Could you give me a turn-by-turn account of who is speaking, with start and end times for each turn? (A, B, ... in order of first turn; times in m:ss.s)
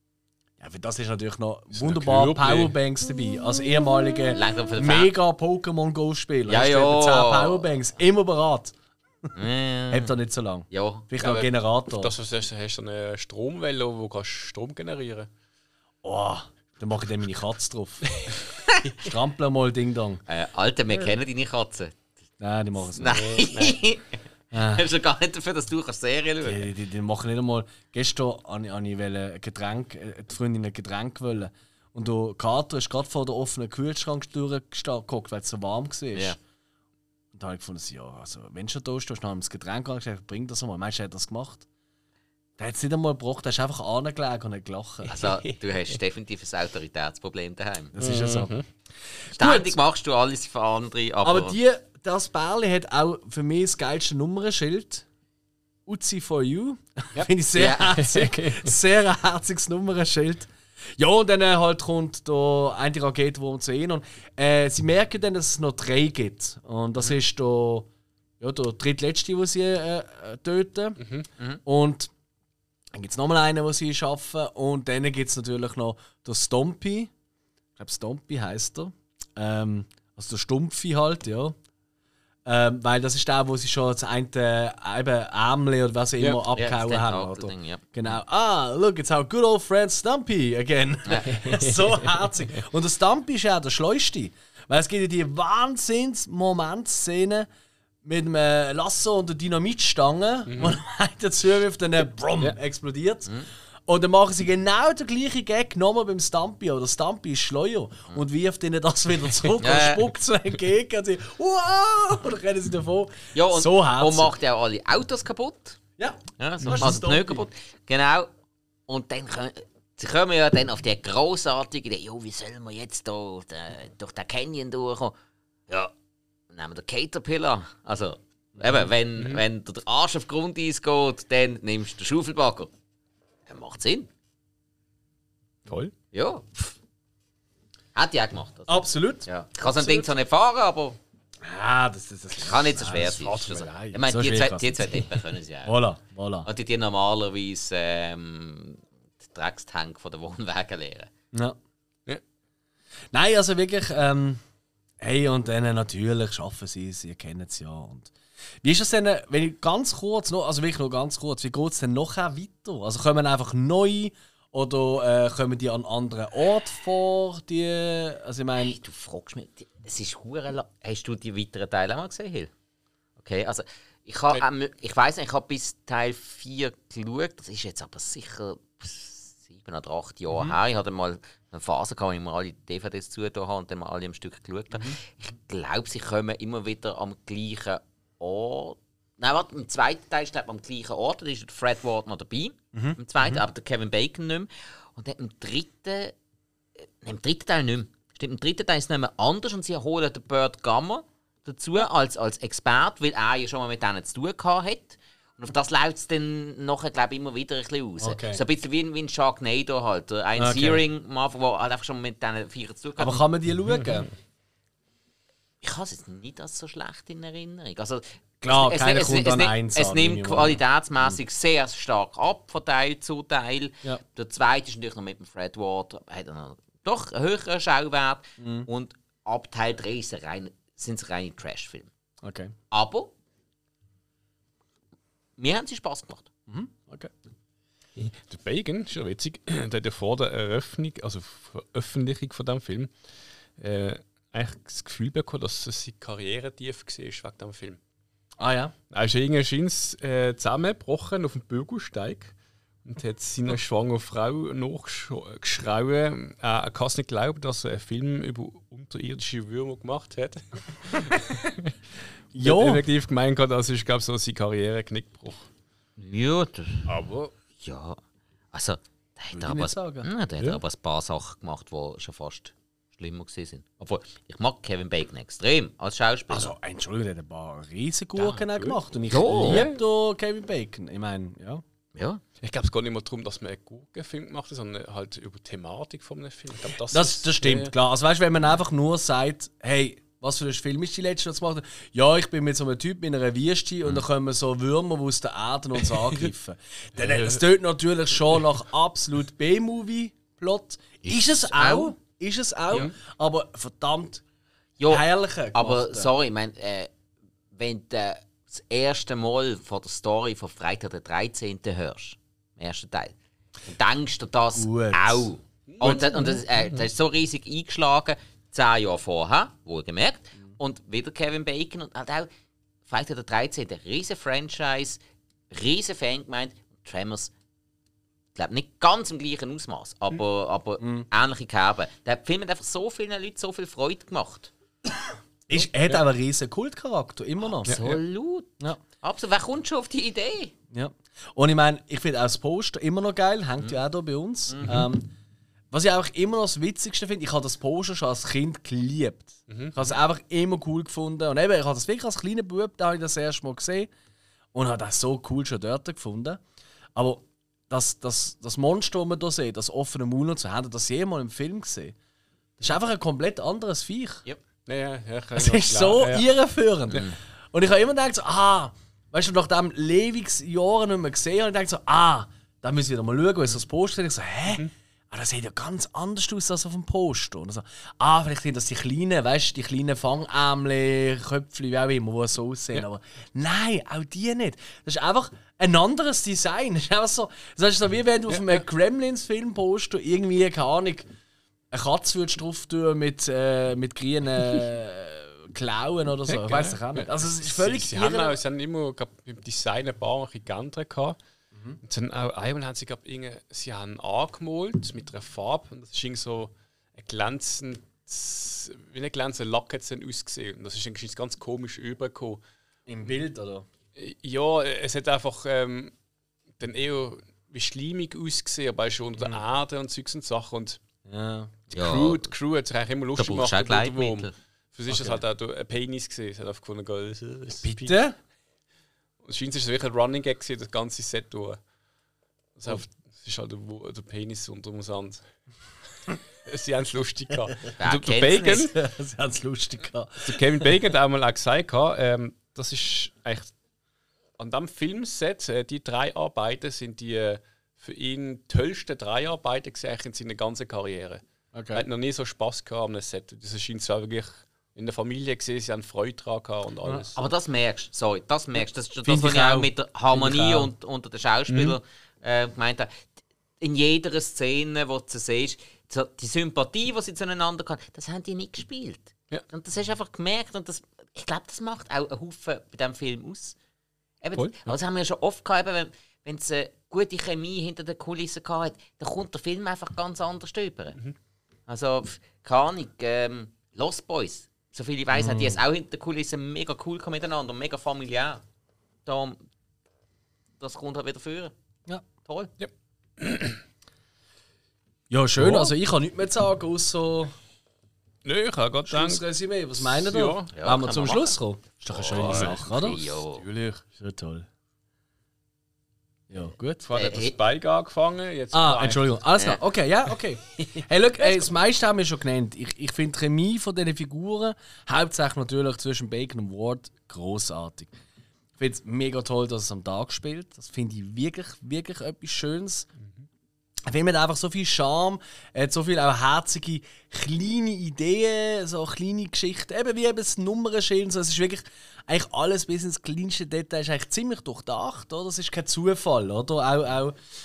0:00.6-0:08.7 A
0:01.7-0:02.8 B
0:04.4-0:05.1 C
0:06.5-0:07.6 C
0:09.3-0:10.1 C
0:09.9-0:12.1 A
0:10.7-0:11.1 C
0:11.2-0:15.3 B
0:16.0-0:18.2 A
0:18.9-0:20.2 A
0:20.3-0:22.0 C
0:22.4-0:23.2 A
0:22.9-0:26.7 C
0:23.1-0:23.8 B
0:24.5-0:24.8 A
0:26.4-0:36.4 A
0:37.3-0:41.7 A
0:42.6-0:45.2 A
0:45.1-0:47.9 C
0:47.9-0:48.6 A
0:48.0-0:48.6 B
0:49.3-0:49.8 A
0:49.4-0:51.6 C
0:51.2-0:55.1 A
0:55.9-1:07.9 A
0:57.6-0:58.0 C
0:58.0-0:58.7 B
1:08.4-1:11.0 A
1:11.0-1:11.3 B
1:11.7-1:12.1 A
1:12.9-1:17.1 A
1:17.8-1:21.6 A
1:22.5-1:37.5 A
1:26.5-1:27.9 C
1:31.1-1:31.5 C
1:31.4-1:31.9 B
1:38.0-1:43.3 A
1:40.5-1:40.8 B
1:43.9-1:54.3 A
1:49.6-1:50.1 C
1:53.3-1:55.8 C
1:56.0-1:57.5 A
1:56.4-1:58.3 C
1:58.9-2:05.2 C
2:06.5-2:12.7 C
2:09.2-2:09.4 B
2:13.5-2:14.1 C
2:15.7-2:15.9 B
2:16.1-2:16.7 C
2:18.0-2:21.0 C
2:18.7-2:20.1 A
2:21.4-2:26.5 A
2:22.4-2:25.7 C
2:23.1-2:23.8 B
2:26.5-2:31.1 C
2:31.3-2:31.6 A
2:33.1-2:34.4 A
2:35.0-2:48.8 A
2:48.6-2:52.5 C
2:53.2-3:16.1 C
3:00.3-3:00.6 A
3:04.7-3:05.0 A
3:12.7-3:13.4 A
3:17.0-3:33.2 C
3:28.0-3:28.4 A
3:30.4-3:30.8 A
3:33.0-3:34.1 A
3:33.7-3:34.1 B
3:35.6-3:51.9 C
3:38.4-3:41.2 A
3:48.4-3:48.7 A
3:52.2-3:52.6 A
3:52.7-3:53.1 C
3:55.4-3:56.3 C
3:56.5-3:57.1 A
3:58.0-4:02.9 B
4:03.6-4:07.8 B
4:08.4-4:08.7 A
4:08.9-4:12.3 B
4:12.8-4:21.7 B
4:22.3-4:22.8 A
4:22.4-4:25.5 B
4:26.0-4:26.9 C
4:26.9-4:27.3 B
4:27.6-4:28.0 C
4:28.5-4:36.5 C
4:29.3-4:30.1 A
4:36.3-4:41.6 A
4:38.2-4:38.8 B
4:39.1-4:39.6 C
4:39.3-4:39.8 B
4:42.0-4:42.2 C
4:42.4-4:47.7 B
4:46.9-5:04.2 A
4:57.0-4:57.4 B
5:01.0-5:01.9 C
5:04.8-5:06.9 C
5:04.9-5:06.1 A
5:07.5-5:13.2 C
5:13.7-5:22.3 C
5:14.6-5:15.3 A
5:15.7-5:16.4 B
5:22.8-5:25.0 C
5:25.5-5:27.3 C
5:28.4-5:34.5 C
5:30.8-5:31.1 A
5:35.5-5:37.8 A
5:35.5-5:36.0 B
5:37.6-5:40.5 C
5:37.7-5:38.0 B
5:40.7-5:45.1 A
5:44.6-5:44.9 B
5:45.7-5:53.9 A
5:49.5-5:49.8 B
5:54.5-5:56.4 A
5:57.0-6:02.0 A
6:02.6-6:04.2 A
6:04.7-6:06.3 B
6:05.4-6:31.1 A
6:31.7-6:38.4 A
6:36.3-6:41.2 B
6:41.5-6:41.8 A
6:41.8-6:52.4 B
6:52.9-6:53.7 A
6:54.0-6:55.9 B
6:56.6-7:00.8 B
7:01.1-7:01.7 A
7:01.7-7:08.0 B
7:01.7-7:02.3 C
7:03.2-7:04.3 C
7:04.9-7:05.2 A
7:07.6-7:08.2 A
7:09.2-7:11.6 B
7:12.6-7:15.2 B
7:16.5-7:18.8 B
7:17.8-7:18.7 C
7:18.3-7:20.7 A
7:20.2-7:23.5 B
7:24.4-7:31.2 B
7:31.5-7:31.9 A
7:31.7-7:37.2 B
7:37.2-7:43.1 C
7:39.0-7:40.7 A
7:41.5-7:41.8 B
7:43.6-7:53.6 C
7:54.2-8:01.0 C
7:54.4-7:54.7 B
8:01.7-8:08.4 C
8:05.1-8:05.6 A
8:09.0-8:09.4 C
8:10.6-8:11.5 C
8:12.2-8:12.5 C
8:12.6-8:13.6 B
8:15.1-8:17.3 A
8:15.4-8:15.7 B
8:18.2-8:19.2 B
8:18.9-8:23.0 A
8:19.8-8:20.5 B
8:20.5-8:21.4 C
8:21.9-8:23.5 C
8:22.0-8:23.8 B
8:23.8-8:24.5 A
8:26.3-8:26.8 A
8:26.8-8:29.1 B
8:26.9-8:27.4 C
8:28.5-8:37.9 A
8:29.4-8:29.6 C
8:38.6-8:42.9 A
8:43.9-8:57.2 A